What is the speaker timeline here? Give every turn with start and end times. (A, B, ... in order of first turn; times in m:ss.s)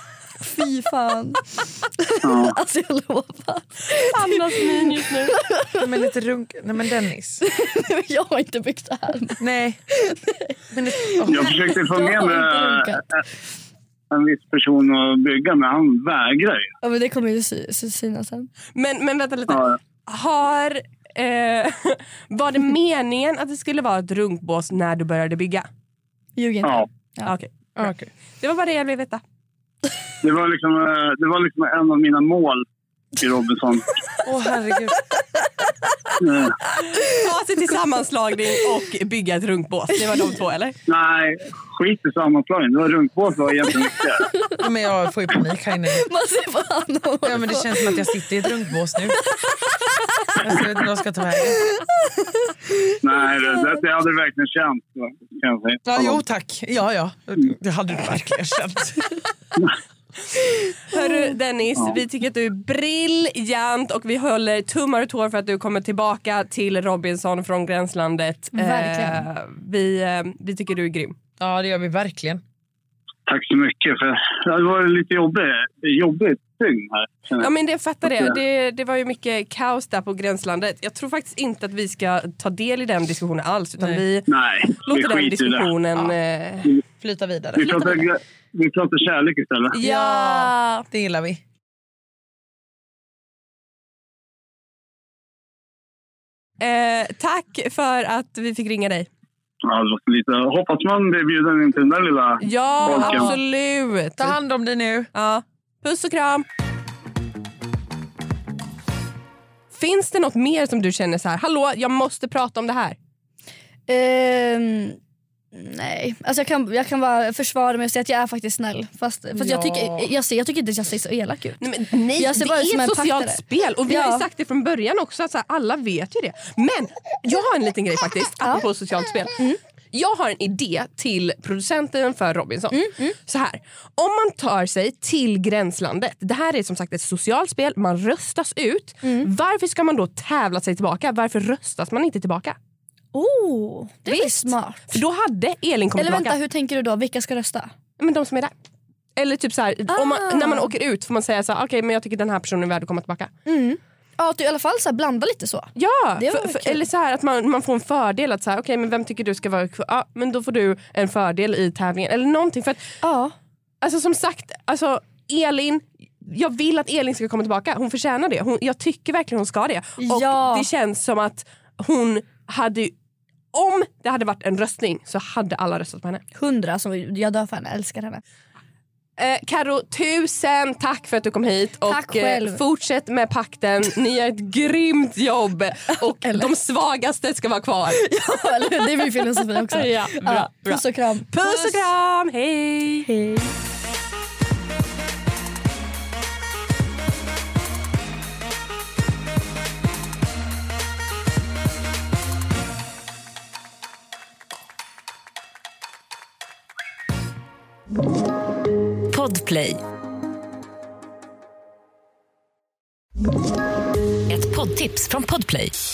0:00.4-0:05.9 A
0:02.2-0:02.6 B
0:04.0-0:05.3 C
0:05.7-0:07.4 D
0:07.4-0:13.0 A
0:09.4-0:09.8 D
0:10.7-0:11.5 D
0:11.3-0:13.2 B
0:14.1-0:16.7 B
0:16.8-0:18.5 A
0:18.7-0:25.7 C
0:19.5-0:19.8 B
0:26.4-0:27.3 A
0:27.2-0:27.9 C
0:27.8-0:28.1 D
0:28.4-0:29.2 C
0:30.2-0:32.6 B
0:33.2-0:33.9 B
0:34.2-0:35.0 D
0:36.2-0:36.5 B
0:36.7-0:37.2 A
0:37.0-0:40.8 C
0:40.9-0:44.3 B
0:44.3-0:44.5 A
0:44.6-0:46.1 D
0:46.0-0:48.0 A
0:47.2-0:49.2 D
0:50.4-0:51.6 D
0:52.2-0:53.6 A
0:53.0-0:56.2 B
0:55.8-0:59.2 D
1:00.9-1:01.2 A
1:00.9-1:11.2 C
1:08.5-1:09.2 A
1:11.4-1:12.4 D
1:13.3-1:18.4 B
1:17.4-1:24.3 C
1:24.3-1:25.7 B
1:24.8-1:26.7 C
1:27.0-1:28.0 D
1:27.5-1:29.7 B
1:29.8-1:31.4 D
1:29.8-1:30.1 C
1:29.8-1:30.8 A
1:36.6-1:39.1 C
1:39.6-1:43.3 B
1:42.4-1:44.4 C
1:42.9-1:43.4 D
1:44.2-1:45.1 D
1:45.1-1:46.4 C
1:49.7-1:53.0 C
1:53.9-1:55.0 A
1:55.5-2:04.2 A
1:59.3-2:00.1 D
2:01.6-2:09.4 C
2:09.9-2:22.6 C
2:12.7-2:13.2 A
2:19.0-2:19.3 A
2:23.1-2:25.0 A
2:24.1-2:26.4 C
2:26.0-2:27.7 A
2:28.0-2:28.5 C
2:29.2-2:33.3 C
2:29.9-2:30.7 A
2:33.4-2:36.8 A
2:35.8-2:43.0 C
2:43.0-2:43.3 A
2:43.8-2:52.9 C
2:50.0-2:50.7 A
2:53.5-2:56.2 C
2:56.3-2:58.2 A
2:59.2-3:08.0 C
3:01.8-3:02.6 A
3:06.2-3:06.5 A
3:08.0-3:11.3 A
3:09.7-3:13.1 C
3:13.0-3:13.5 A
3:29.1-3:29.8 E
3:34.3-3:35.8 E